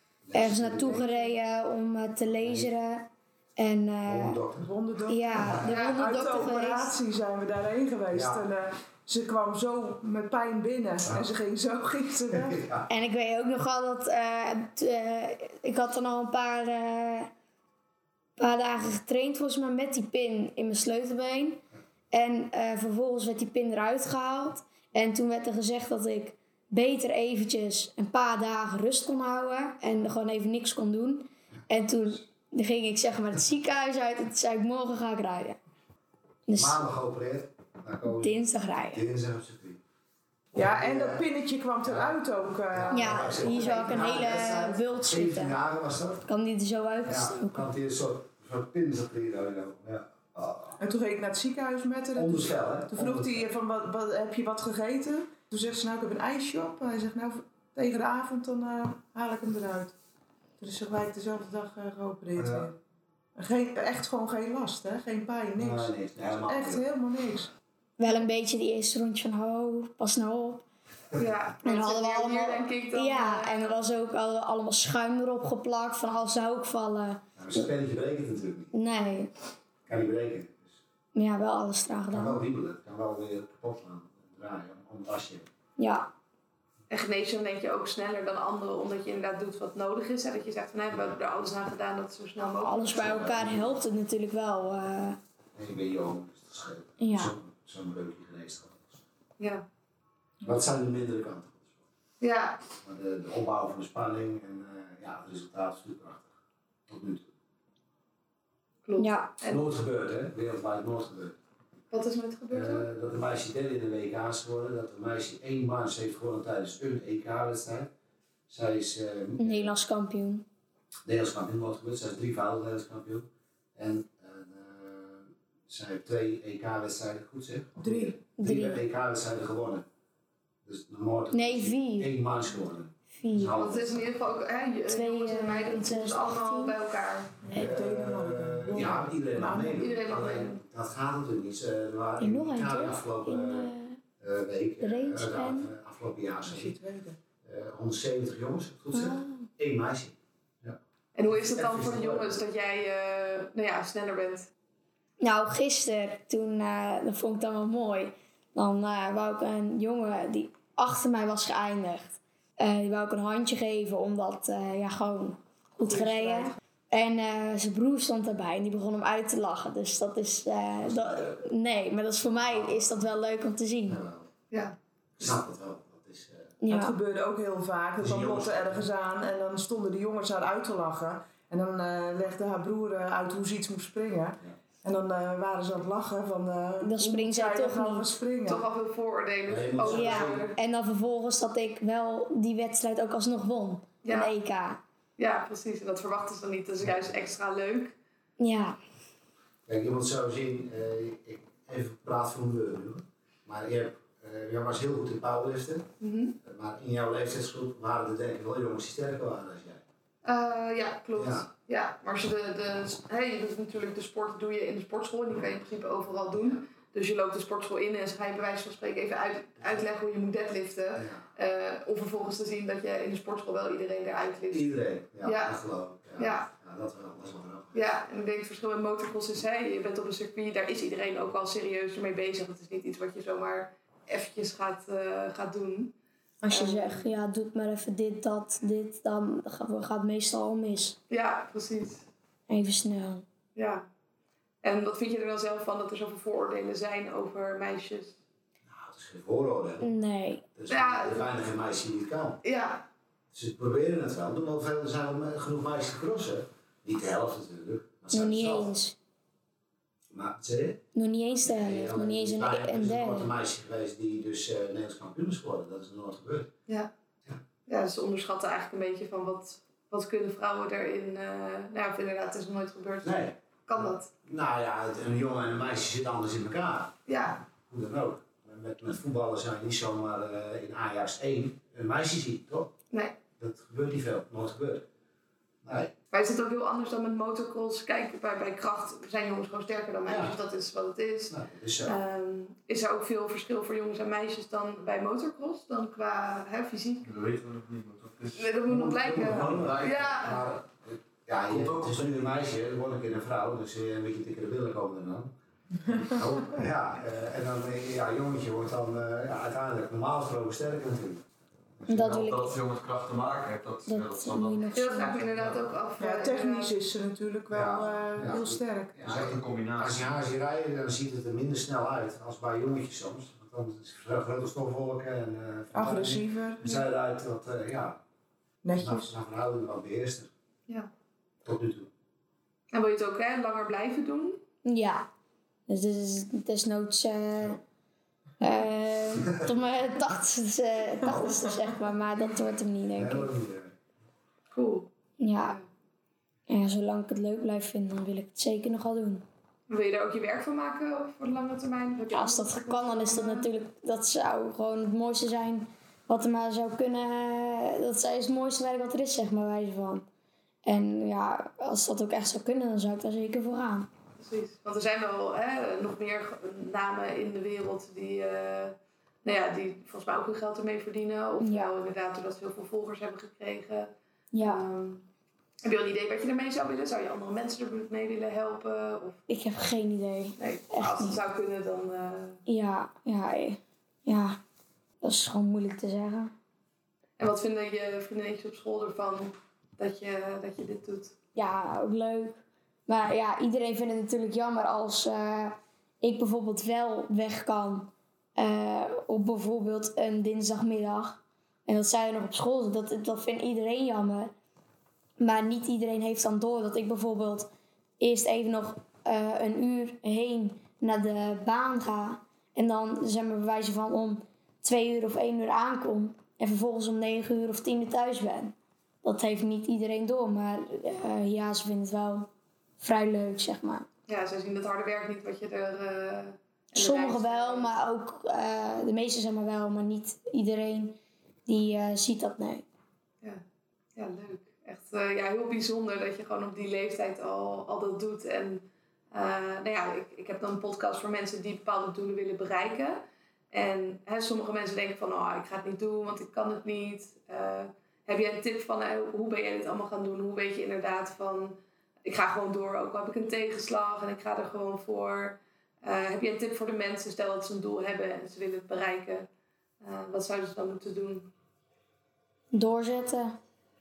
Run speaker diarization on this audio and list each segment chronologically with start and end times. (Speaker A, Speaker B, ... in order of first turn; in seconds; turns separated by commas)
Speaker A: 0.2-1.1, Speaker B: 0.3-4.4, Speaker C: 0.9-1.3, Speaker A: 2.4-2.7, Speaker A: 4.0-4.7, Speaker D: 4.5-12.6, Speaker B: 5.1-6.9, Speaker C: 5.6-6.3, Speaker A: 8.1-8.4, Speaker A: 11.0-11.3, Speaker A: 12.3-12.9, Speaker B: 12.9-17.3, Speaker B: 18.4-35.6, Speaker B: 36.5-36.8, Speaker A: 36.5-39.8, Speaker B: 38.0-39.0, Speaker A: 40.5-41.3, Speaker D: 40.5-44.2, Speaker A: 41.8-46.3, Speaker B: 42.9-45.6, Speaker B: 46.3-47.7, Speaker A: 47.0-50.8, Speaker D: 50.8-59.9, Speaker A: 52.1-53.5, Speaker D: 60.6-62.8, Speaker A: 62.4-62.7, Speaker D: 63.4-67.5, Speaker A: 65.6-66.8, Speaker B: 68.0-70.6, Speaker C: 71.2-73.8, Speaker B: 71.6-77.7, Speaker A: 77.4-78.7, Speaker B: 78.7-79.3, Speaker A: 79.8-80.8, Speaker B: 81.1-82.4, Speaker A: 82.1-85.5, Speaker B: 85.8-86.1, Speaker C: 86.9-93.1, Speaker B: 92.5-95.2, Speaker A: 92.9-93.8, Speaker A: 95.5-99.0, Speaker B: 97.0-97.3, Speaker C: 99.4-99.6, Speaker A: 100.4-101.8, Speaker C: 102.2-102.6, Speaker A: 102.8-107.3, Speaker C: 108.8-109.7, Speaker B: 109.0-109.3, Speaker A: 109.4-111.3, Speaker C: 111.9-112.9, Speaker A: 112.5-117.9, Speaker A: 118.5-119.7, Speaker B: 119.4-120.5, Speaker A: 121.0-129.8, Speaker D: 127.8-128.2, Speaker B: 128.4-128.8, Speaker A: 130.6-134.1, Speaker B: 131.3-132.1, Speaker B: 133.1-133.6, Speaker C: 133.6-137.4, Speaker B: 134.9-136.8, Speaker D: 137.4-139.8, Speaker A: 137.5-146.8, Speaker C: 139.7-140.6, Speaker B: 142.2-144.0, Speaker B: 144.8-145.7, Speaker D: 146.4-147.2, Speaker A: 147.4-150.8, Speaker B: 148.9-149.5, Speaker C: 151.1-154.5, Speaker A: 151.3-152.4, Speaker B: 155.2-174.0, Speaker D: 165.8-166.6, Speaker A: 170.8-171.5, Speaker A: 172.3-172.9, Speaker A: 173.9-174.3, Speaker C: 174.5-175.2, Speaker A: 175.2-176.6, Speaker B: 176.6-176.9, Speaker D: 176.7-188.7, Speaker A: 178.0-178.8, Speaker B: 186.8-188.1, Speaker C: 188.4-190.6, Speaker A: 189.5-190.5, Speaker B: 189.8-194.8, Speaker C: 194.0-194.3, Speaker C: 195.2-197.9, Speaker A: 196.8-197.2, Speaker B: 198.4-198.8, Speaker A: 199.7-205.9, Speaker C: 206.0-206.3, Speaker A: 206.4-209.8, Speaker C: 210.2-224.7, Speaker A: 211.1-211.5, Speaker A: 216.3-216.6, Speaker A: 220.9-221.2, Speaker A: 224.5-227.9, Speaker C: 225.2-225.6, Speaker C: 226.2-226.5, Speaker C: 227.7-235.9, Speaker B: 236.4-241.0, Speaker C: 236.5-237.1, Speaker C: 241.1-242.1, Speaker B: 242.5-243.2, Speaker C: 243.5-243.8, Speaker C: 244.6-248.2, Speaker A: 248.7-249.9, Speaker B: 249.8-250.4, Speaker A: 250.5-252.4, Speaker C: 250.7-251.3, Speaker C: 252.4-252.8, Speaker A: 253.3-258.7, Speaker B: 258.1-258.9, Speaker A: 260.1-260.8, Speaker B: 260.9-263.3, Speaker A: 261.4-266.5, Speaker C: 267.6-274.1, Speaker A: 273.0-276.9, Speaker C: 277.1-277.4, Speaker A: 277.6-282.7, Speaker C: 282.9-283.2, Speaker A: 283.4-284.9, Speaker A: 285.6-285.9, Speaker C: 286.1-297.1, Speaker A: 290.1-290.4, Speaker A: 291.3-292.0, Speaker E: 297.0-298.5, Speaker C: 298.3-300.4, Speaker A: 298.7-305.3, Speaker E: 299.1-300.4, Speaker E: 301.5-302.2, Speaker D: 305.8-306.5, Speaker A: 305.9-311.2, Speaker B: 311.9-312.6, Speaker E: 311.9-315.6, Speaker B: 313.9-315.1, Speaker C: 314.7-316.7, Speaker D: 316.0-319.0, Speaker A: 317.5-328.0, Speaker E: 319.0-320.1, Speaker D: 325.7-326.6, Speaker D: 328.6-329.1, Speaker A: 328.8-330.3, Speaker A: 331.4-331.9, Speaker C: 332.7-334.4, Speaker B: 334.6-335.1, Speaker B: 335.7-337.6, Speaker B: 338.4-343.3, Speaker A: 341.0-341.4, Speaker A: 342.9-343.7, Speaker C: 344.5-344.9, Speaker B: 345.2-345.6, Speaker C: 345.4-345.6, Speaker B: 346.5-349.2, Speaker C: 349.7-353.5, Speaker B: 352.1-360.1, Speaker B: 360.6-363.9, Speaker C: 364.2-375.0, Speaker B: 371.4-371.7, Speaker B: 374.3-374.6, Speaker C: 375.6-379.2, Speaker B: 379.3-381.2, Speaker C: 380.4-382.4, Speaker B: 382.5-384.4, Speaker B: 385.0-386.3, Speaker C: 387.2-391.1, Speaker B: 391.3-404.3, Speaker B: 405.2-423.9, Speaker C: 424.1-427.7, Speaker B: 426.7-432.6, Speaker C: 433.9-459.3, Speaker C: 459.8-461.3, Speaker B: 462.5-463.4